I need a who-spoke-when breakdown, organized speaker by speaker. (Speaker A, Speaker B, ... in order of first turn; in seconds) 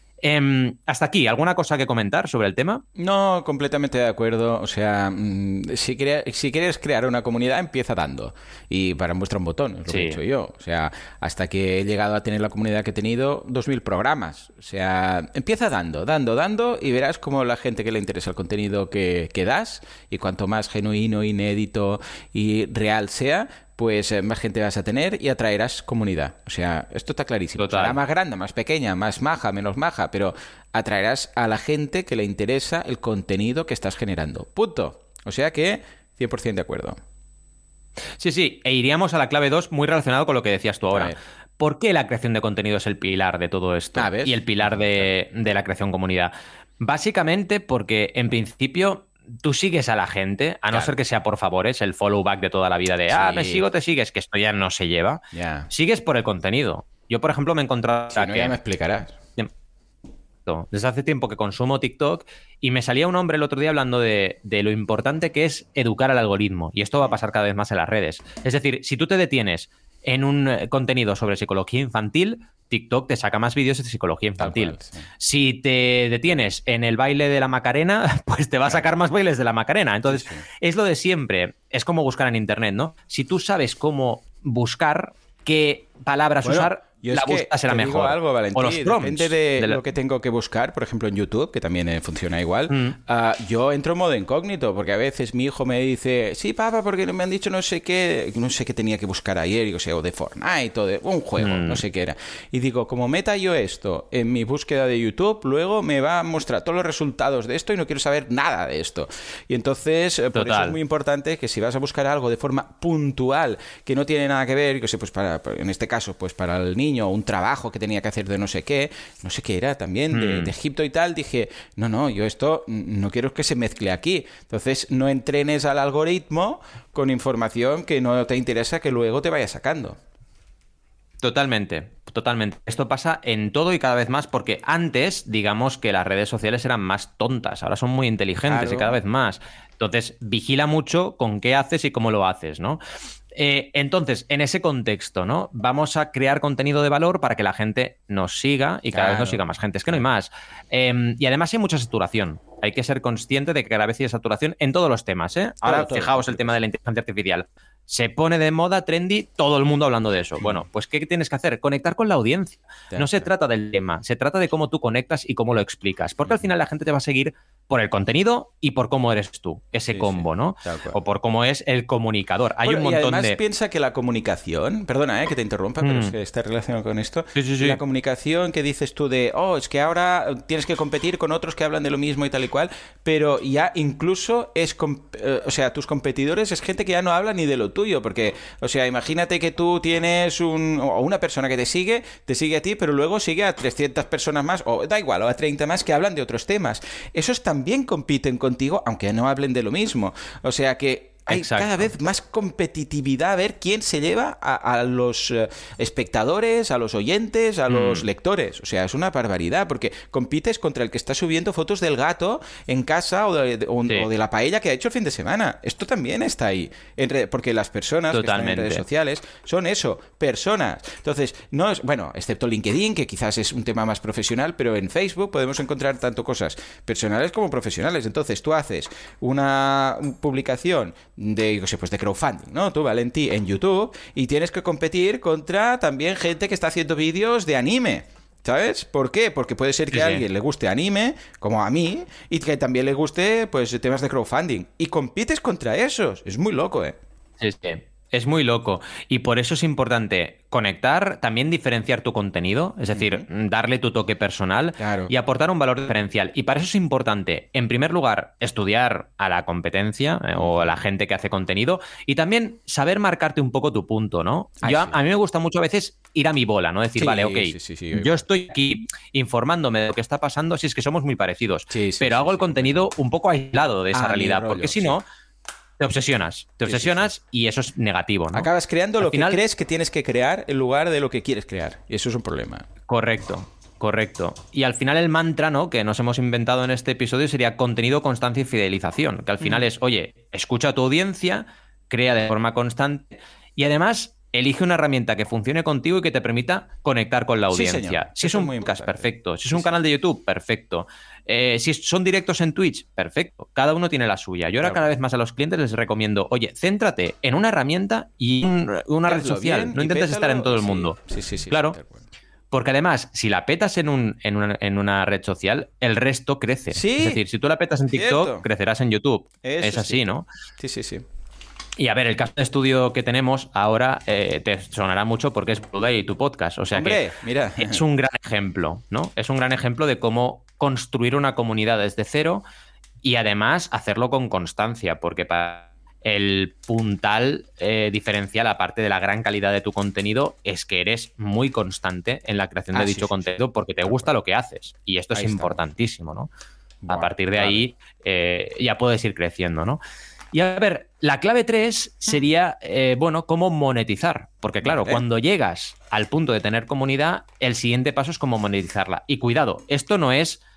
Speaker A: 0.2-2.8, 9.9-10.2, 27.6-28.0, 38.2-58.6, 60.5-89.8, 92.7-93.0, 101.4-101.8, 110.3-110.8, 120.1-120.5, 131.2-142.8, 143.3-173.4, 175.8-176.2, 177.3-177.8, 201.3-201.9, 207.7-208.1, 218.1-218.8, 239.9-240.2, 247.4-275.1, 275.8-278.5, 279.0-279.4, 282.9-311.0, 311.5-311.8, 312.5-320.3, 321.8-327.0, 327.6-332.4, 333.0-346.3, 346.9-349.8, 350.3-360.4
Speaker B: 3.0-37.0, 40.9-41.2, 44.0-45.1, 53.1-53.6, 55.3-55.7, 58.1-59.2, 74.4-75.0, 80.1-80.5, 86.4-130.0, 138.4-139.0, 148.9-150.0, 155.6-156.6, 162.9-163.3, 169.9-171.0, 172.6-247.0, 252.9-253.2, 254.8-255.1, 260.3-260.8, 264.6-265.0, 267.0-268.3, 271.7-272.9, 273.9-275.0, 276.6-277.1, 278.3-282.7, 297.5-299.8, 304.6-304.9, 309.1-312.1, 316.7-317.2, 317.9-318.5, 319.4-320.1, 320.6-321.1, 326.7-327.8, 342.7-344.1, 345.1-345.6, 346.8-347.7, 354.6-355.0